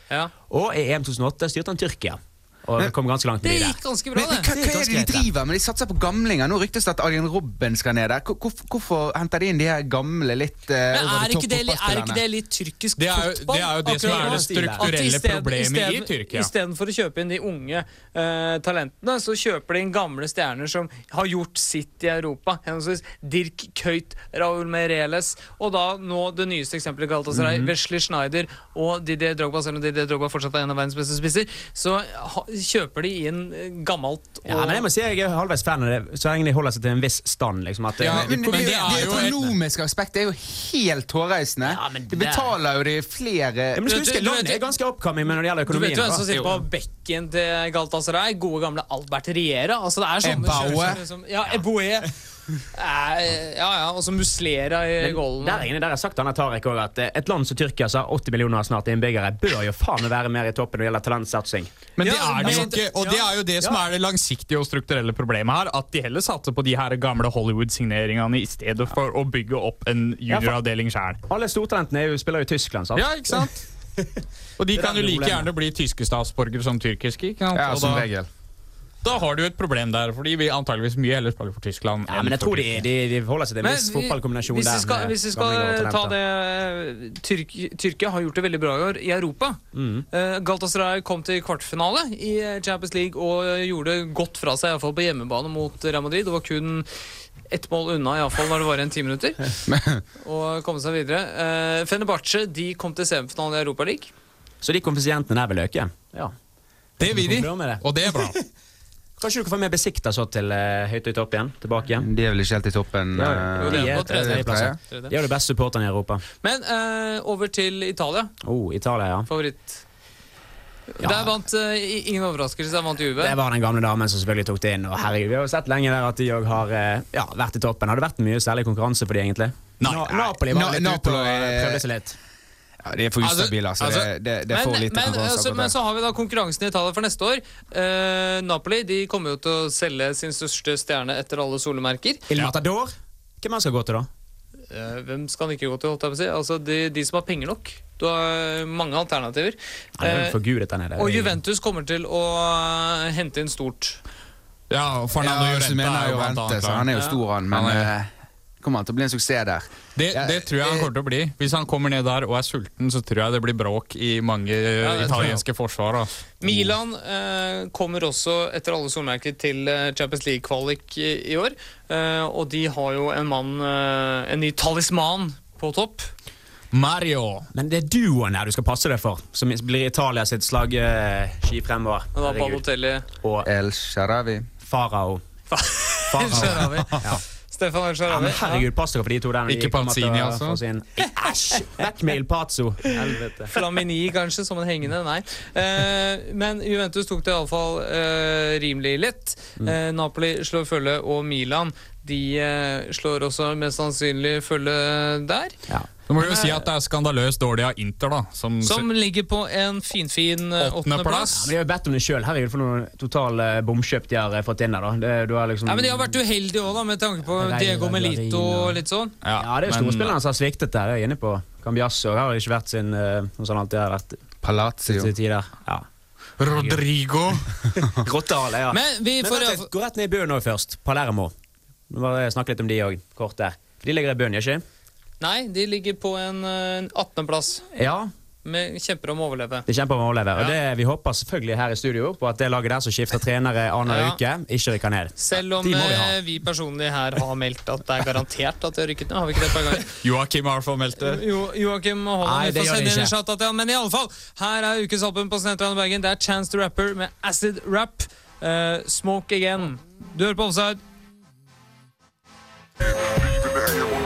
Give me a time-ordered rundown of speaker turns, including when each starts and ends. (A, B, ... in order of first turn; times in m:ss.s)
0:00.5-0:03.8 A
0:03.4-0:04.5 B
0:04.2-0:12.2 C
0:04.3-0:05.3 A
0:10.9-0:34.8 B
0:13.0-0:16.5 D
0:13.8-0:14.9 A
0:27.3-0:27.7 A
0:34.4-0:39.3 A
0:38.0-0:39.5 D
0:38.1-0:43.8 C
0:41.6-0:42.6 A
0:43.7-0:46.5 A
0:43.8-0:44.7 B
0:45.7-0:52.1 B
0:50.2-0:51.0 C
0:52.7-0:55.7 B
0:55.0-1:01.7 A
1:02.0-1:11.2 D
1:02.0-1:03.3 B
1:02.4-1:03.0 A
1:10.3-1:10.6 A
1:11.3-1:15.5 A
1:12.9-1:13.6 D
1:14.6-1:18.1 D
1:17.5-1:18.3 C
1:19.0-1:22.9 D
1:22.1-1:26.1 A
1:23.6-1:36.9 B
1:29.7-1:30.0 A
1:37.5-1:39.6 B
1:39.7-1:40.0 C
1:40.2-1:44.1 B
1:44.6-1:46.3 A
1:47.0-1:48.4 D
1:47.0-1:48.4 A
1:49.2-1:52.1 A
1:52.0-1:54.8 C
1:53.1-1:56.2 A
1:53.6-1:55.1 B
1:56.4-1:58.3 B
1:58.4-1:59.3 A
1:59.3-1:59.8 B
2:00.9-2:03.4 B
2:01.0-2:01.4 A
2:03.2-2:12.2 A
2:09.8-2:10.3 D
2:10.4-2:11.8 C
2:12.8-2:15.7 C
2:13.2-2:14.1 D
2:14.5-2:22.2 B
2:22.3-2:24.1 A
2:24.7-2:30.4 B
2:30.0-2:31.4 A
2:31.0-2:34.0 B
2:34.7-2:36.9 D
2:35.2-2:38.1 C
2:37.5-2:37.9 D
2:38.6-2:40.9 C
2:40.0-2:46.6 D
2:44.8-2:45.4 B
2:46.4-2:56.1 B
2:56.7-2:57.5 D
2:57.5-3:03.5 A
3:02.1-3:03.0 B
3:03.4-3:04.5 C
3:04.6-3:05.2 A
3:05.5-3:08.7 B
3:06.1-3:07.2 A
3:06.4-3:06.8 C
3:08.1-3:13.6 A
3:09.5-3:10.6 D
3:13.5-3:25.6 B
3:26.1-3:28.9 D
3:26.2-3:26.6 B
3:28.6-3:31.5 B
3:30.6-3:31.4 D
3:31.3-3:36.2 A
3:35.6-3:39.1 B
3:37.2-3:38.8 A
3:39.2-3:40.2 D
3:39.3-3:44.2 A
3:44.4-3:45.1 C
3:44.8-3:45.8 A
3:46.4-3:47.5 D
3:46.4-3:46.8 A
3:47.7-3:51.3 A
3:48.7-3:49.7 B
3:51.9-3:54.6 A
3:55.2-3:57.7 B
3:57.7-3:58.1 A
3:58.4-3:59.6 B
3:59.7-4:06.2 A
4:03.9-4:04.2 B
4:05.2-4:09.9 B
4:10.0-4:11.2 D
4:11.0-4:20.8 B
4:12.2-4:13.1 A